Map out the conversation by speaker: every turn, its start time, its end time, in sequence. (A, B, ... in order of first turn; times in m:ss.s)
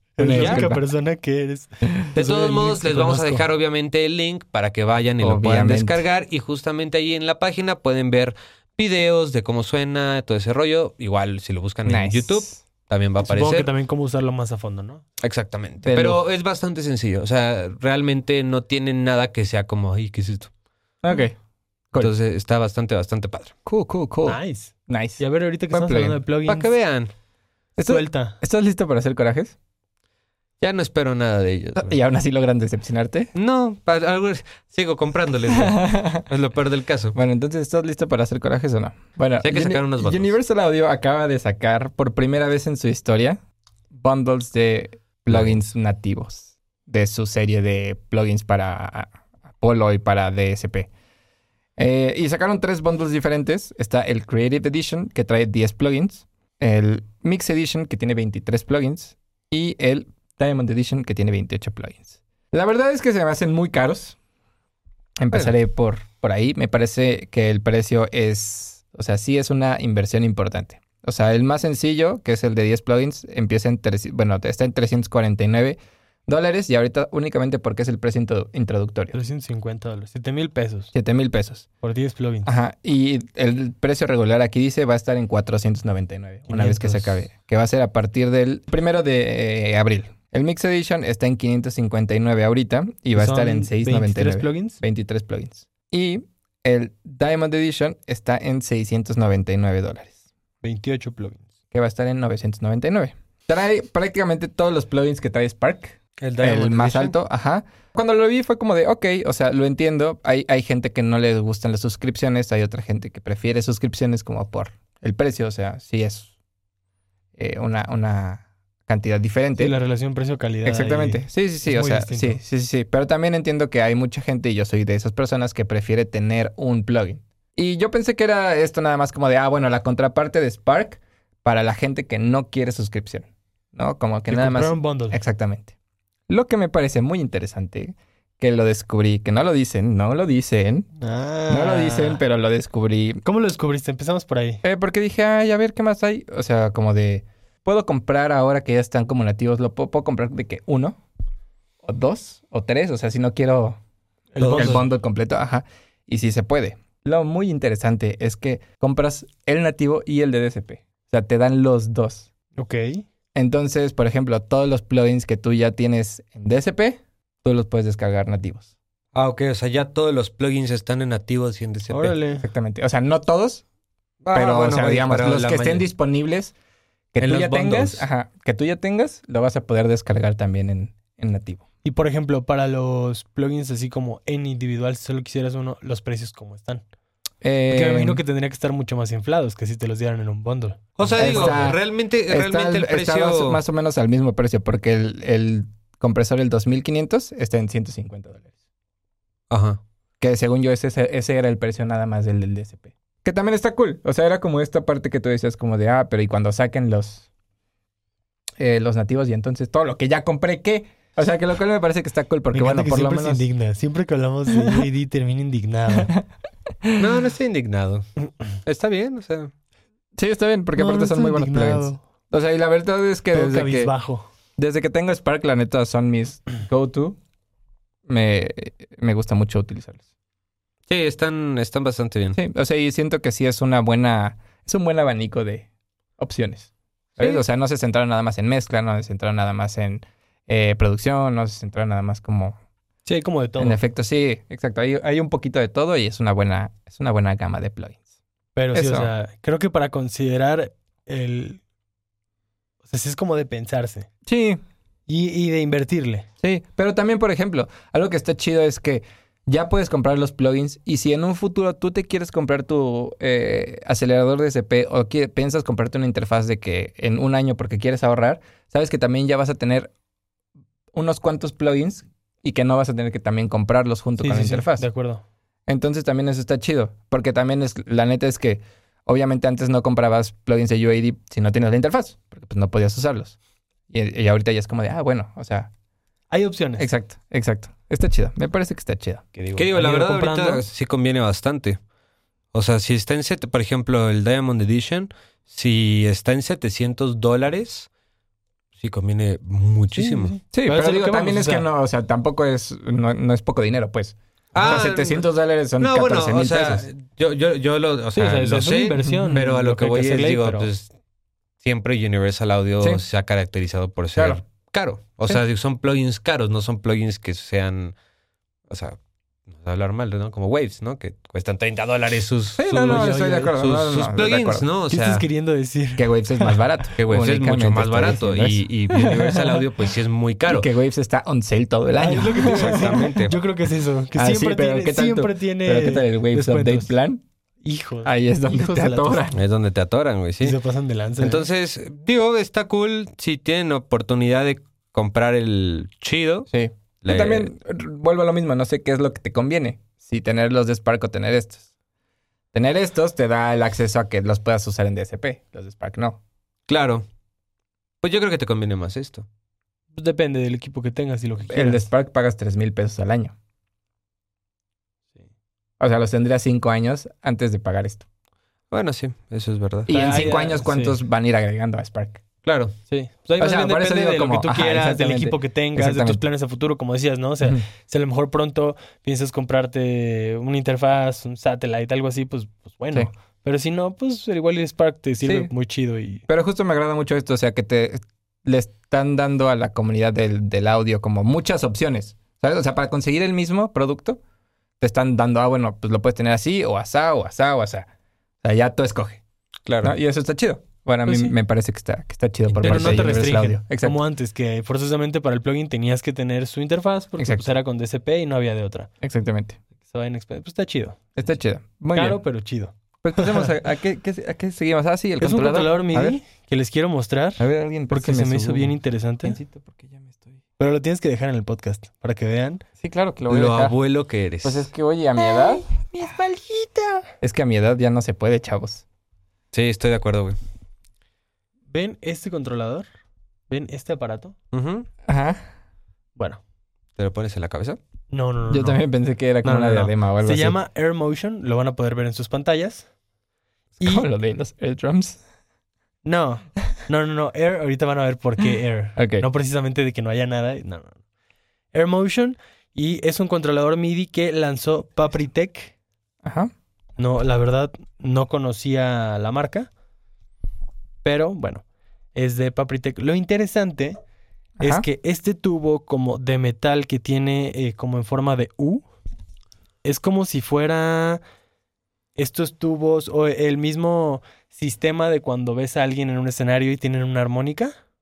0:00.2-0:03.4 A
0:00.2-0:00.8 B
0:00.3-0:00.6 C
0:02.1-0:13.7 C
0:05.2-0:06.0 B
0:11.8-0:12.5 B
0:13.2-0:15.0 A
0:15.2-0:20.5 C
0:15.8-0:16.2 B
0:21.0-0:21.4 B
0:22.0-0:23.5 C
0:23.6-0:26.2 B
0:24.2-0:26.7 A
0:26.4-0:27.1 C
0:27.8-0:29.5 B
0:27.8-0:28.4 A
0:30.6-0:32.0 C
0:31.8-0:33.3 B
0:33.3-0:37.2 C
0:35.6-0:36.2 B
0:37.1-0:43.4 B
0:39.4-0:40.3 C
0:43.9-0:50.9 B
0:45.3-0:45.6 C
0:51.8-1:04.2 B
1:05.2-1:19.1 B
1:19.1-1:20.9 A
1:20.9-1:21.6 B
1:21.8-1:22.5 A
1:22.4-1:40.2 B
1:26.5-1:27.2 A
1:33.2-1:34.8 A
1:40.6-1:41.5 A
1:41.7-1:56.3 B
1:46.2-1:47.1 C
1:57.4-1:59.7 B
1:59.6-2:02.4 A
2:00.6-2:15.7 B
2:14.3-2:15.2 A
2:16.3-2:20.9 B
2:21.0-2:22.2 A
2:21.5-2:23.2 B
2:23.2-2:24.6 A
2:24.6-2:31.0 B
2:31.8-2:33.8 B
2:34.3-2:34.8 A
2:34.4-2:34.8 C
2:34.5-2:42.3 B
2:42.6-2:43.0 A
2:43.3-2:48.7 B
2:49.1-2:52.2 C
2:51.9-2:52.4 A
2:52.4-2:53.6 B
2:54.2-2:55.8 C
2:54.3-2:56.5 B
2:57.1-3:01.6 B
2:57.2-2:58.0 C
3:01.8-3:06.8 A
3:07.4-3:08.2 B
3:07.7-3:11.7 A
3:11.0-3:13.6 C
3:11.2-3:18.5 B
3:19.5-3:19.8 C
3:20.2-3:27.2 B
3:28.6-3:33.4 B
3:32.5-3:36.1 A
3:34.5-3:34.9 B
3:35.9-3:36.2 B
3:37.0-3:38.0 C
3:38.6-3:39.5 C
3:40.2-3:43.9 B
3:40.8-3:42.0 A
3:43.3-3:44.2 A
3:44.6-3:47.2 B
3:48.1-3:50.0 B
3:50.9-3:52.4 C
3:52.4-3:55.7 B
3:56.2-4:02.6 B
4:03.0-4:03.8 A
4:03.6-4:08.0 B
4:08.6-4:11.6 A
4:08.7-4:09.1 B
4:12.8-4:14.1 A
4:14.2-4:14.6 B
4:15.1-4:16.3 A
4:16.4-4:29.9 B
4:30.9-4:34.8 B
4:34.2-4:35.2 A
4:35.7-4:43.4 B
4:43.9-4:45.7 B
4:46.3-4:46.9 A
4:46.8-4:49.2 B
4:49.3-4:50.6 A
4:49.6-4:51.8 C
4:52.5-4:57.9 C
4:58.8-5:00.4 C
4:59.9-5:01.7 A
5:00.5-5:06.8 B
5:04.5-5:05.2 C
5:05.8-5:10.9 C
5:08.1-5:10.7 A
5:09.0-5:09.4 B
5:11.6-5:18.0 C
5:14.2-5:14.4 B
5:18.7-5:23.0 C
5:22.6-5:24.6 B
5:22.7-5:23.5 A
5:23.6-5:25.2 C
5:24.9-5:26.6 A
5:26.0-5:29.6 B
5:27.0-5:30.7 C
5:30.5-5:33.1 B
5:32.0-5:36.9 A
5:32.4-5:33.4 C
5:34.2-5:37.2 B
5:37.6-5:39.3 A
5:38.0-5:39.4 B
5:39.3-5:40.6 C
5:40.4-5:41.4 A
5:41.2-5:46.5 C
5:46.5-5:51.6 B
5:47.0-5:47.5 C
5:52.5-5:56.2 B
5:56.7-5:57.0 C
5:58.0-5:59.2 C
5:59.9-6:01.8 A
6:01.5-6:03.3 B
6:05.8-6:08.0 B
6:08.7-6:10.0 C
6:09.9-6:12.2 B
6:09.9-6:11.0 A
6:12.4-6:12.7 C
6:12.9-6:26.2 A
6:13.4-6:16.2 B
6:25.2-6:25.5 B
6:26.3-6:34.2 B
6:34.8-6:37.9 B
6:38.4-6:39.2 B
6:39.7-6:40.0 C
6:39.8-6:44.0 B
6:41.0-6:41.3 A
6:42.5-6:43.1 C
6:42.6-6:48.9 A
6:47.2-6:47.5 B
6:49.0-6:49.6 B
6:49.9-6:51.1 A
6:51.2-6:52.2 B
6:51.9-6:53.5 A
6:53.0-6:56.2 B
6:55.2-6:59.4 A
6:57.4-7:00.4 B
7:00.6-7:02.6 A
7:02.8-7:03.7 B
7:03.3-7:04.7 C
7:04.4-7:05.6 B
7:05.2-7:07.1 A
7:07.2-7:08.8 B
7:09.5-7:10.4 C
7:11.7-7:12.8 A
7:13.5-7:14.3 A
7:14.5-7:14.9 C
7:15.1-7:15.4 B
7:17.0-7:17.8 C
7:18.1-7:18.8 A
7:18.5-7:20.6 B
7:19.4-7:22.9 A
7:23.8-7:24.1 A
7:23.8-7:25.2 B
7:26.0-7:31.0 A
7:29.0-7:29.2 B
7:31.7-7:35.7 A
7:36.2-7:36.5 B
7:37.0-7:39.7 A
7:41.0-7:41.6 A
7:42.1-7:44.0 A
7:44.6-7:44.8 B
7:44.6-7:48.8 A
7:49.8-7:51.2 A
7:52.2-7:57.7 A